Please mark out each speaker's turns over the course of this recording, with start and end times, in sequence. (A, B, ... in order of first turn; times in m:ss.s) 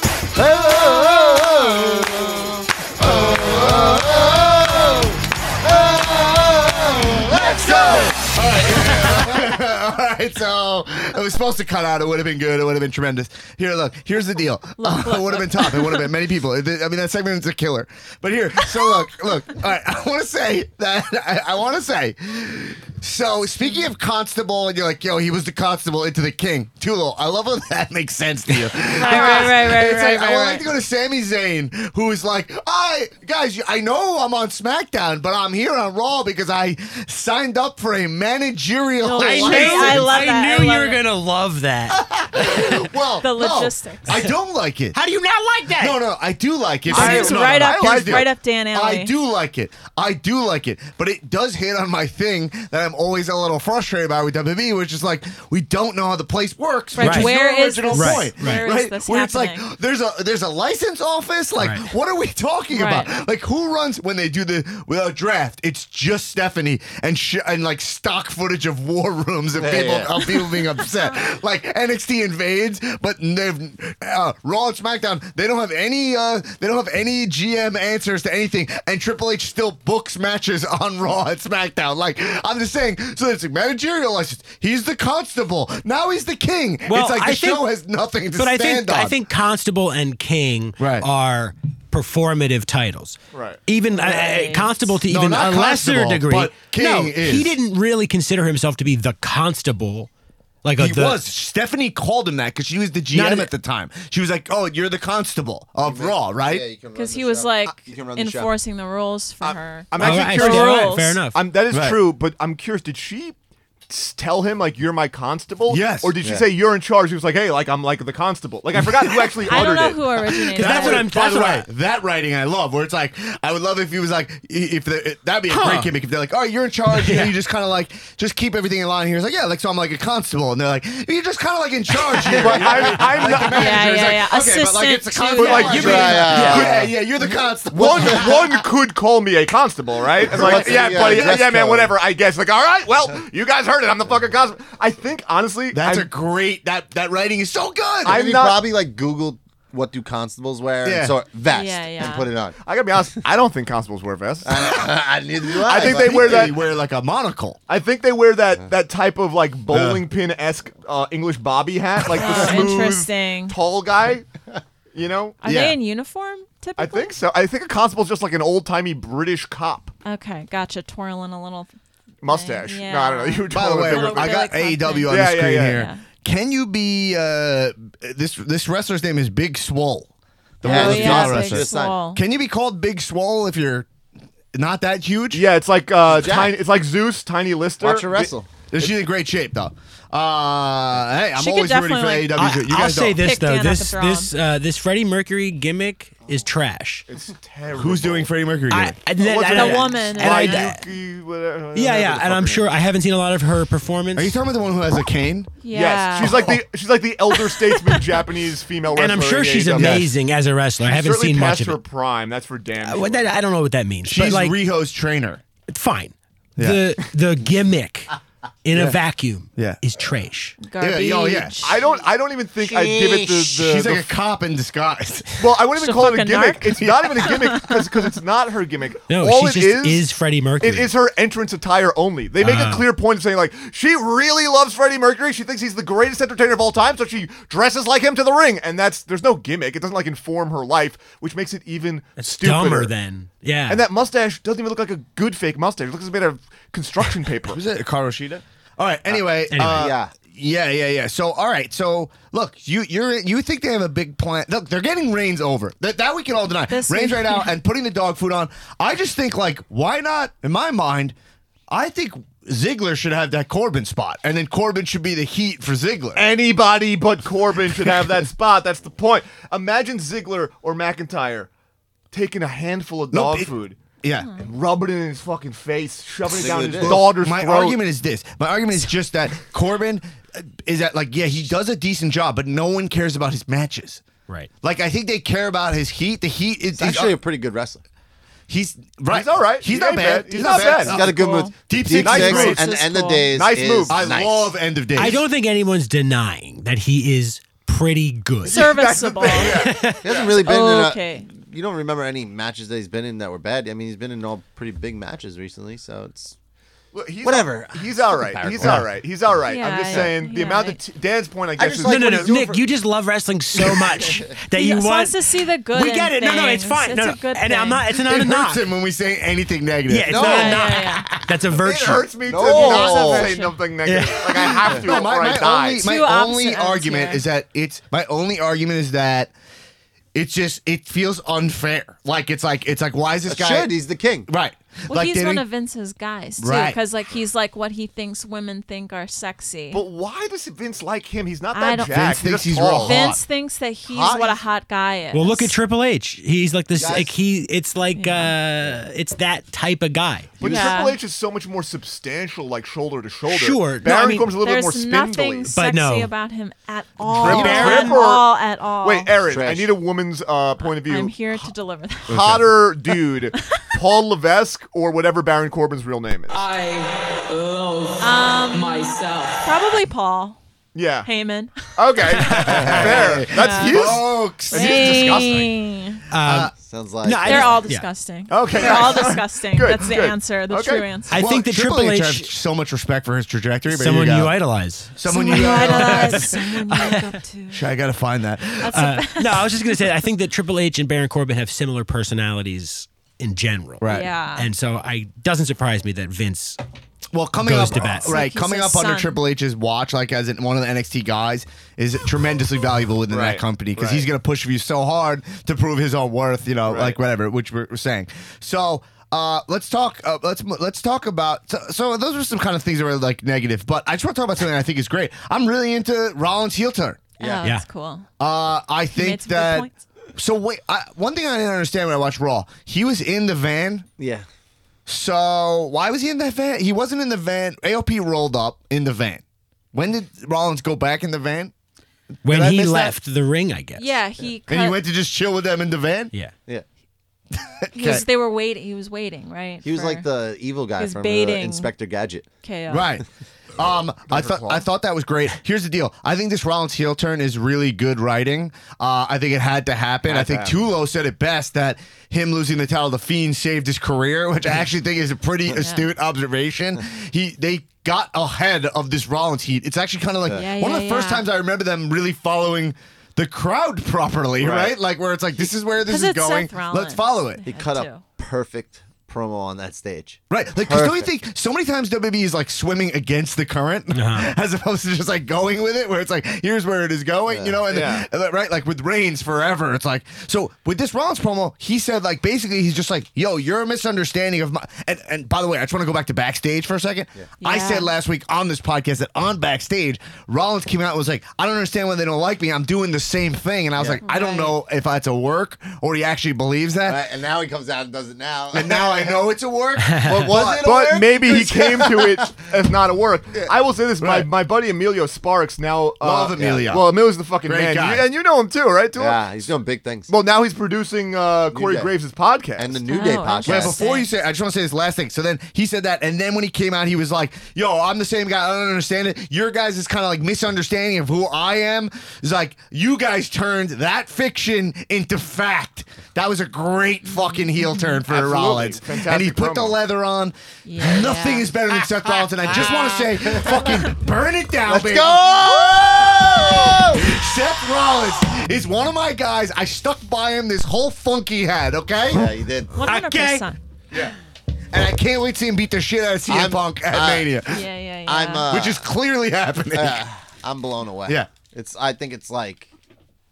0:00.4-0:08.1 A
0:03.0-0:04.8 B
0:07.2-0:40.2 B
0:14.8-0:16.1 C
0:28.9-0:30.7 C
0:39.0-0:41.0 C
0:39.2-0:42.9 D
0:41.9-0:45.0 B
0:43.2-0:44.2 C
0:44.1-0:44.4 D
0:44.9-0:46.0 D
0:45.7-1:29.2 B
0:46.9-0:49.1 C
0:46.9-0:48.3 E
0:56.9-0:59.6 C
0:57.0-0:57.3 D
0:57.9-0:58.6 D
1:01.6-1:01.9 D
1:02.7-1:03.1 C
1:09.6-1:10.2 A
1:26.9-1:27.7 D
1:28.4-1:40.1 D
1:30.8-1:31.1 B
1:33.3-1:33.6 E
1:34.0-1:35.0 C
1:35.1-1:37.6 B
1:40.6-1:41.2 D
1:40.8-1:46.7 B
1:43.1-1:43.5 D
1:45.8-1:48.5 A
1:46.9-1:51.2 C
1:49.4-1:53.4 E
1:50.0-1:51.4 D
1:51.7-1:52.0 B
1:53.9-2:00.0 E
1:55.7-1:56.2 B
1:56.2-1:56.5 A
1:59.5-2:01.1 C
2:00.5-2:18.6 B
2:00.5-2:01.7 D
2:05.5-2:05.9 D
2:06.9-2:07.4 D
2:12.3-2:13.8 E
2:12.3-2:13.0 A
2:13.6-2:16.2 C
2:15.4-2:16.9 E
2:15.7-2:16.9 A
2:15.8-2:16.7 D
2:17.7-2:26.1 E
2:17.8-2:18.2 A
2:20.2-2:22.0 A
2:20.3-2:21.4 B
2:25.7-2:28.3 B
2:28.0-2:28.7 E
2:28.0-2:32.6 A
2:30.8-2:31.2 B
2:31.5-2:32.3 C
2:32.6-2:34.9 E
2:34.4-2:36.5 A
2:35.5-2:36.5 E
2:35.7-2:37.6 B
2:37.7-2:44.2 E
2:39.7-2:40.0 B
2:42.1-2:43.6 C
2:44.9-2:45.4 E
2:45.4-2:47.1 C
2:45.4-2:45.8 B
2:46.8-2:49.9 E
2:50.0-2:51.7 C
2:52.2-2:54.4 E
2:52.2-2:56.0 C
2:53.5-3:00.1 B
2:55.1-2:55.8 E
3:00.6-3:03.9 B
3:00.6-3:02.0 A
3:00.6-3:02.2 C
3:04.5-3:05.4 B
3:05.3-3:08.9 E
3:06.1-3:06.6 A
3:07.8-3:08.5 A
3:08.7-3:13.2 B
3:11.4-3:14.3 C
3:12.4-3:17.1 D
3:17.1-3:18.3 E
3:17.7-3:19.0 B
3:18.7-3:20.8 D
3:19.2-3:22.8 E
3:19.5-3:20.7 C
3:21.8-3:24.4 D
3:24.2-3:25.5 B
3:25.6-3:26.6 C
3:25.7-3:30.1 E
3:26.2-3:26.6 B
3:27.3-3:28.0 C
3:28.9-3:31.8 D
3:29.8-3:30.1 B
3:30.8-3:33.3 E
3:32.8-3:34.6 D
3:34.0-3:35.4 B
3:35.7-3:38.1 D
3:36.6-3:36.8 B
3:38.6-3:40.6 D
3:38.7-3:39.0 B
3:40.6-3:41.9 C
3:40.8-3:41.8 B
3:41.6-3:44.1 E
3:43.1-3:45.3 B
3:45.4-3:50.0 E
3:45.8-3:47.8 C
3:46.8-3:47.5 B
3:49.1-3:50.9 D
3:50.6-4:02.9 E
3:52.4-3:52.9 D
4:02.2-4:03.8 D
4:03.7-4:07.6 E
4:07.5-4:21.2 B
4:09.1-4:10.1 A
4:09.5-4:09.9 D
4:16.7-4:17.5 C
4:21.7-4:26.3 B
4:26.2-4:31.5 E
4:32.1-4:33.8 E
4:33.1-4:33.5 B
4:34.0-4:34.3 B
4:34.2-4:34.4 C
4:34.4-4:37.8 E
4:36.2-4:37.1 A
4:36.8-4:44.0 B
4:44.6-4:47.2 B
4:46.8-4:47.8 A
4:48.5-4:52.6 B
4:49.1-4:51.0 E
4:50.5-4:51.5 C
4:50.8-4:54.6 A
4:51.9-4:52.6 E
4:52.4-4:53.3 C
4:53.2-4:54.0 E
4:53.9-4:55.2 B
4:55.0-4:58.6 D
4:58.4-4:59.7 E
4:58.5-4:59.6 C
4:59.2-4:59.9 B
4:59.5-5:00.0 D
5:00.0-5:06.4 A
5:00.4-5:01.3 C
5:06.9-5:12.3 E
5:07.2-5:10.1 A
5:09.4-5:10.8 C
5:11.6-5:12.6 A
5:11.9-5:15.2 D
5:13.6-5:14.3 A
5:14.5-5:17.8 C
5:15.7-5:18.6 D
5:18.0-5:20.5 B
5:19.9-5:22.1 D
5:20.1-5:20.6 A
5:20.1-5:21.1 C
5:21.6-5:25.9 E
5:22.3-5:23.4 A
5:22.4-5:23.6 C
5:23.8-5:24.6 D
5:24.6-5:29.3 B
5:24.7-5:25.0 A
5:25.8-5:27.2 C
5:30.1-5:33.8 B
5:33.3-5:34.3 A
5:34.3-5:35.4 B
5:34.9-5:39.8 C
5:36.4-5:36.8 B
5:39.7-5:43.1 E
5:41.5-5:42.2 C
5:41.9-5:43.2 B
5:42.8-5:45.5 C
5:43.9-5:44.4 A
5:45.1-5:50.4 D
5:46.7-5:47.1 A
5:48.0-5:48.4 C
5:50.4-5:55.5 E
5:50.4-5:50.8 A
5:50.4-5:51.0 C
5:53.3-5:54.4 D
5:54.4-5:59.1 C
5:55.5-5:56.1 D
5:57.1-5:58.3 E
5:57.3-5:57.8 B
5:57.3-5:58.0 D
5:58.8-6:01.5 E
5:59.2-5:59.8 A
6:00.6-6:02.2 C
6:02.1-6:06.5 E
6:02.1-6:02.5 B
6:08.0-6:10.4 C
6:10.8-6:11.1 E
6:11.0-6:11.7 C
6:11.8-6:15.4 E
6:12.3-6:15.5 B
6:12.3-6:12.8 D
6:13.2-6:14.0 C
6:14.5-6:16.0 C
6:16.1-6:17.8 D
6:16.2-6:16.5 B
6:16.6-6:17.6 A
6:17.2-6:21.2 C
6:18.3-6:20.8 E
6:21.1-6:22.3 D
6:21.1-6:24.4 B
6:23.7-6:27.0 D
6:25.0-6:28.8 B
6:25.1-6:27.7 C
6:28.6-6:29.8 C
6:28.7-6:36.6 D
6:33.8-6:34.1 B
6:33.9-6:34.5 C
6:37.1-6:57.0 B
6:37.4-6:38.2 D
6:38.0-6:39.2 C
6:43.1-6:44.1 E
6:46.7-6:47.0 E
6:57.2-6:58.1 C
6:58.2-7:03.9 B
6:58.9-6:59.7 C
7:04.0-7:04.3 A
7:04.9-7:11.5 B
7:12.2-7:13.0 B
7:12.2-7:14.0 D
7:13.8-7:14.8 C
7:14.5-7:16.1 B
7:17.4-7:18.0 B
7:17.7-7:20.1 C
7:19.6-7:22.3 A
7:20.8-7:21.7 C
7:22.4-7:23.0 C
7:22.7-7:23.0 B
7:23.6-7:47.4 B
7:24.1-7:24.6 E
7:30.1-7:30.6 E
7:35.6-7:35.9 C
7:40.3-7:41.3 C
7:44.4-7:44.7 E
7:45.8-7:48.0 C
7:47.4-7:51.1 A
7:50.3-8:17.0 B
7:53.9-7:54.3 D
7:57.3-7:57.7 A
7:57.7-7:58.1 E
8:07.4-8:07.9 C
8:13.8-8:14.0 A
8:14.0-8:14.6 C
8:16.9-8:19.2 A
8:18.5-8:21.2 B
8:20.0-8:22.4 A
8:20.4-8:29.3 E
8:24.0-8:24.3 B
8:26.0-8:28.1 B
8:26.3-8:26.9 A
8:29.0-8:30.1 A
8:30.1-8:32.8 E
8:31.5-8:31.9 A
8:32.6-8:33.8 A
8:32.9-8:34.1 C
8:33.5-9:02.4 B
8:47.0-8:48.0 C
8:48.1-8:49.8 E
8:50.7-8:53.9 C
8:53.3-8:53.7 A
8:54.7-8:57.1 A
9:02.0-9:02.7 A
9:02.7-9:03.6 C
9:02.9-9:03.5 D
9:04.7-9:07.7 B
9:06.3-9:07.3 A
9:07.5-9:08.5 C
9:08.1-9:08.9 A
9:08.5-9:10.0 B
9:09.7-9:12.7 A